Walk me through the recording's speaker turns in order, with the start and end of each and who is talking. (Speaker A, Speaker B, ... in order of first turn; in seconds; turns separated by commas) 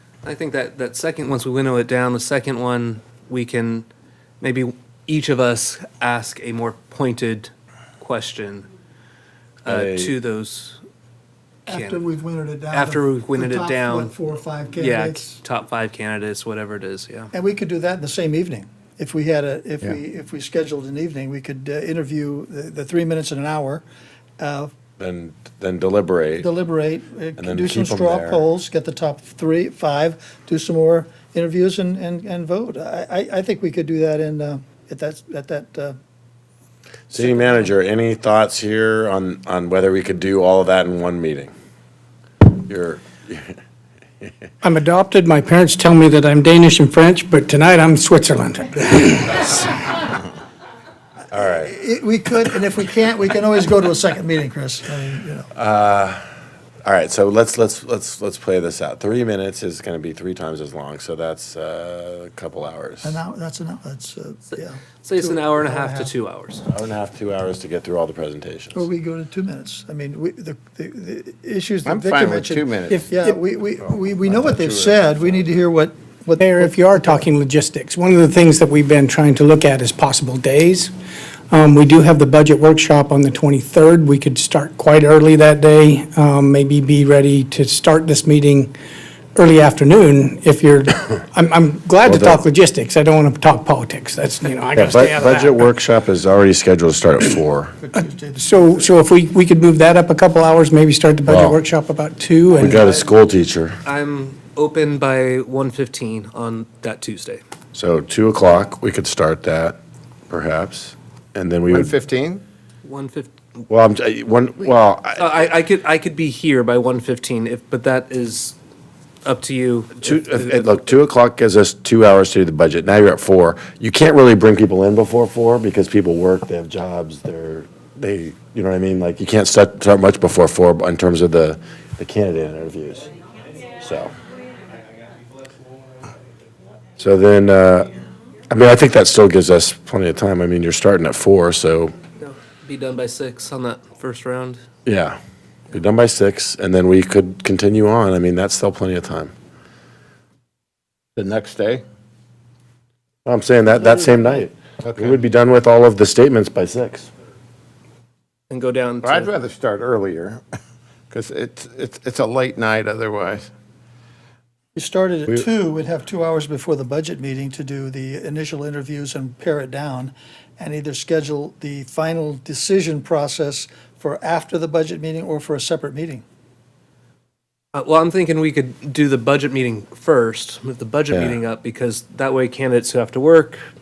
Speaker A: 0.2-3.9, Speaker A: 4.4-8.7, Speaker A: 9.7-10.8, Speaker B: 9.7-10.2, Speaker C: 11.7-15.4, Speaker A: 11.7-12.0, Speaker A: 12.7-14.1, Speaker A: 14.8-17.3, Speaker C: 17.3-23.8, Speaker C: 24.4-24.7, Speaker B: 25.0-26.5, Speaker C: 26.4-36.0, Speaker B: 27.4-28.4, Speaker B: 37.1-41.5, Speaker B: 42.6-43.5, Speaker D: 44.6-49.7, Speaker B: 51.3-51.7, Speaker C: 51.6-55.5, Speaker B: 55.5-56.2, Speaker B: 56.8-63.2, Speaker C: 63.0-66.1, Speaker A: 65.0-66.7, Speaker B: 66.7-68.8, Speaker C: 68.7-77.2, Speaker E: 71.8-73.1, Speaker E: 73.8-75.4, Speaker D: 76.4-80.9, Speaker D: 81.5-88.7, Speaker D: 89.3-95.6, Speaker B: 92.0-92.4, Speaker B: 94.8-97.8, Speaker C: 97.8-98.9, Speaker D: 98.4-102.9, Speaker B: 101.3-101.6, Speaker B: 102.6-103.8, Speaker A: 103.8-107.4, Speaker B: 107.7-109.8, Speaker B: 110.3-111.9, Speaker E: 111.7-112.4, Speaker A: 112.8-113.3, Speaker B: 113.7-115.3, Speaker A: 115.2-118.6, Speaker A: 119.2-120.8, Speaker B: 120.0-133.1, Speaker B: 133.8-134.1, Speaker B: 137.0-137.9, Speaker B: 138.5-141.9, Speaker A: 142.2-144.6, Speaker B: 144.9-145.2, Speaker B: 145.7-149.3, Speaker E: 151.2-151.8, Speaker B: 153.3-157.1, Speaker E: 154.8-155.2, Speaker A: 158.5-159.3, Speaker E: 159.0-160.4, Speaker E: 161.1-163.5, Speaker C: 164.8-176.2, Speaker A: 177.7-183.6, Speaker B: 181.1-181.4